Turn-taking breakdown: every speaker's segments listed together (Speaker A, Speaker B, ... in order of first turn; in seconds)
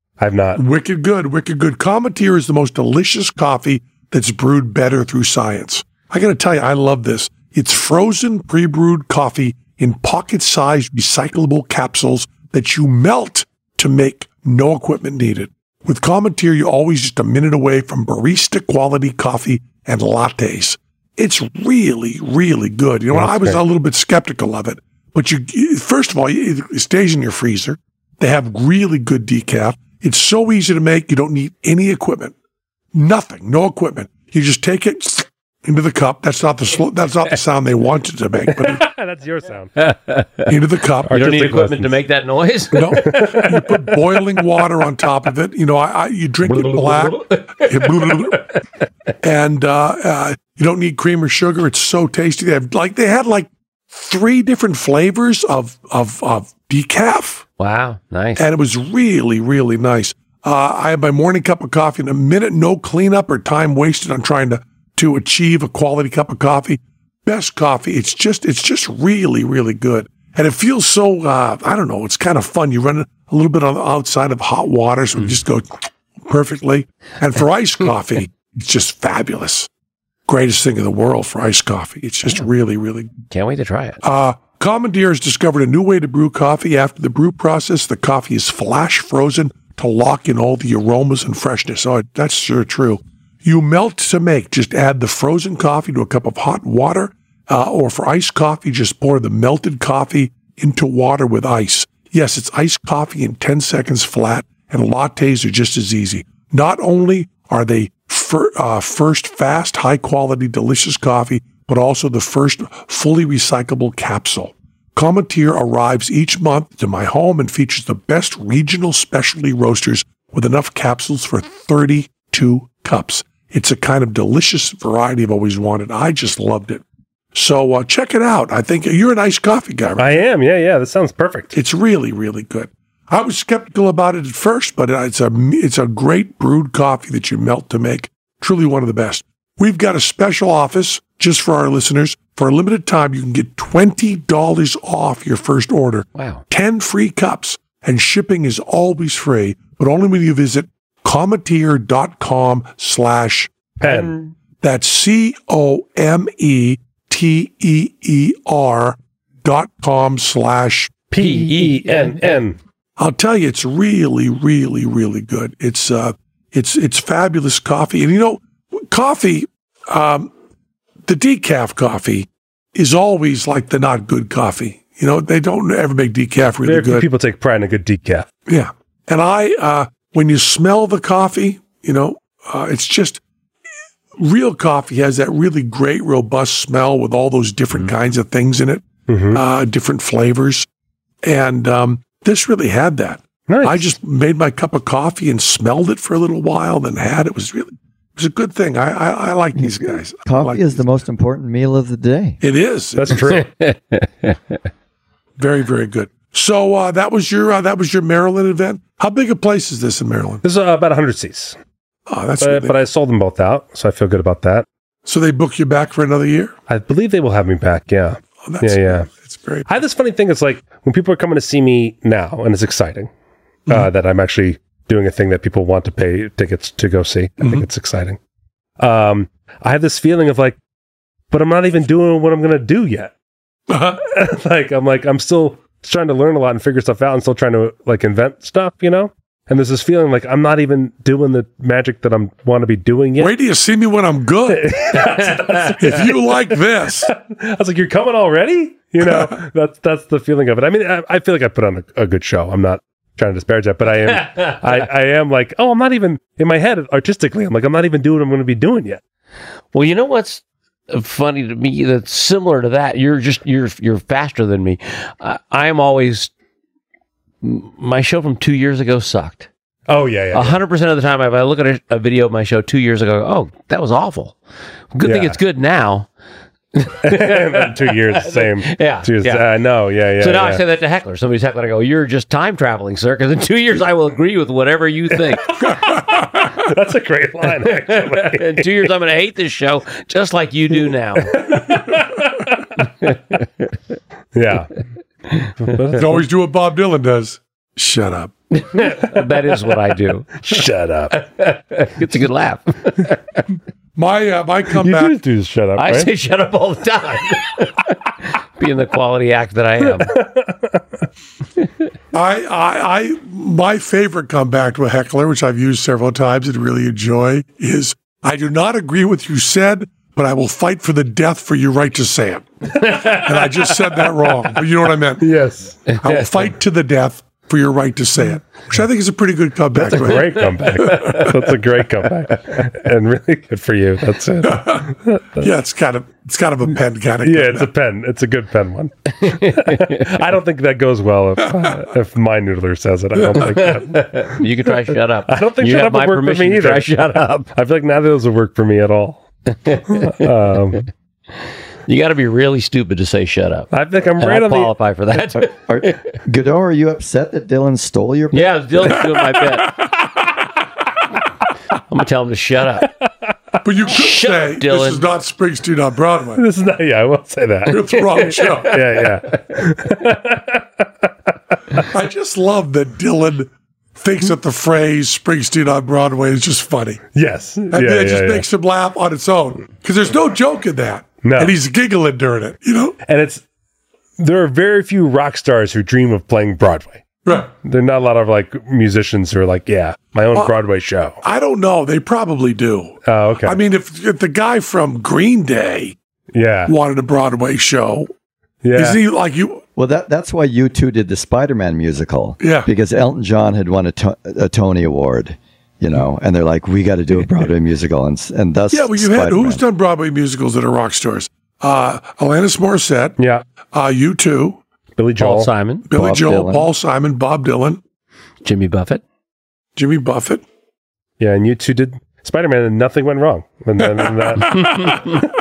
Speaker A: 0.2-0.6, 23.1-23.6, 38.5-39.9, 41.1-41.9, 42.9-43.7, 130.0-131.6, 153.8-154.2, 161.1-162.6, 176.7-178.3, 189.1-189.4, 193.5-193.9, 203.0-203.5, 210.4-211.6, 212.4-214.7, 216.7-219.1, 219.7-223.1, 223.7-228.2, 228.8-230.6, 231.3-233.1, 234.0-243.3, 244.5-246.3, 247.0-259.0, 269.9-270.6, 275.0-275.4, 277.0-280.6, 285.5-288.7, 291.3-292.7, 294.3-294.8, 295.6-296.3, 300.4-301.2, 304.8-306.1, 309.9-311.0, 325.2-325.9, 329.8-335.5, 337.2-344.4, 345.3-349.3, 349.9-350.9, 353.7-354.7, 362.8-363.1, 366.4-371.9, 377.1-378.4, 381.2-381.6, 383.1-383.4, 384.2-391.2, 393.1-393.6, 396.3-396.7, 398.6-399.0, 413.2-413.4, 415.0-415.5, 421.2-425.2
Speaker B: 0.6-32.4, 32.9-38.9, 40.5-41.1, 42.7-48.5, 49.2-57.5, 58.4-79.7, 80.3-83.1, 84.0-126.8, 127.3-130.2, 131.5-153.6, 154.6-160.9, 163.0-170.3, 171.1-177.1, 178.5-183.2, 184.2-190.7, 191.2-200.9, 202.4-203.5, 205.4-210.4, 212.1-212.8, 215.1-216.6, 218.4-219.7, 233.7-234.0, 243.2-247.1, 285.9-286.4, 295.9-298.3, 304.0-305.2, 312.1-325.3, 326.0-331.4, 334.4-337.7, 359.3-359.7, 363.6-366.4, 367.7-368.8, 371.9-377.0, 377.7-383.0, 391.2-395.9, 396.7-398.1, 398.8-399.6, 402.4-402.7, 408.7-413.2, 413.7-414.6, 415.9-417.8, 419.8-420.4, 424.0-425.2
Speaker C: 39.8-40.5, 41.1-43.4, 46.5-48.5, 57.6-58.5, 83.3-84.0, 146.2-146.4, 153.8-154.3, 161.2-162.4, 203.4-204.4, 259.7-266.3, 267.4-269.5, 270.3-274.4, 274.9-276.1, 276.8-279.5, 280.2-285.6, 287.6-291.4, 293.0-293.7, 298.6-300.5, 301.1-303.4, 305.8-310.1, 323.0-323.7, 325.9-326.4, 330.1-331.3, 339.2-340.0, 343.6-347.5, 349.7-350.2, 351.9-356.1, 358.3-359.8, 361.9-362.9, 363.9-365.1, 368.2-369.4, 415.2-415.9, 418.4-419.0
Speaker D: 199.6-202.4, 355.4-359.1, 399.8-409.6, 415.9-416.7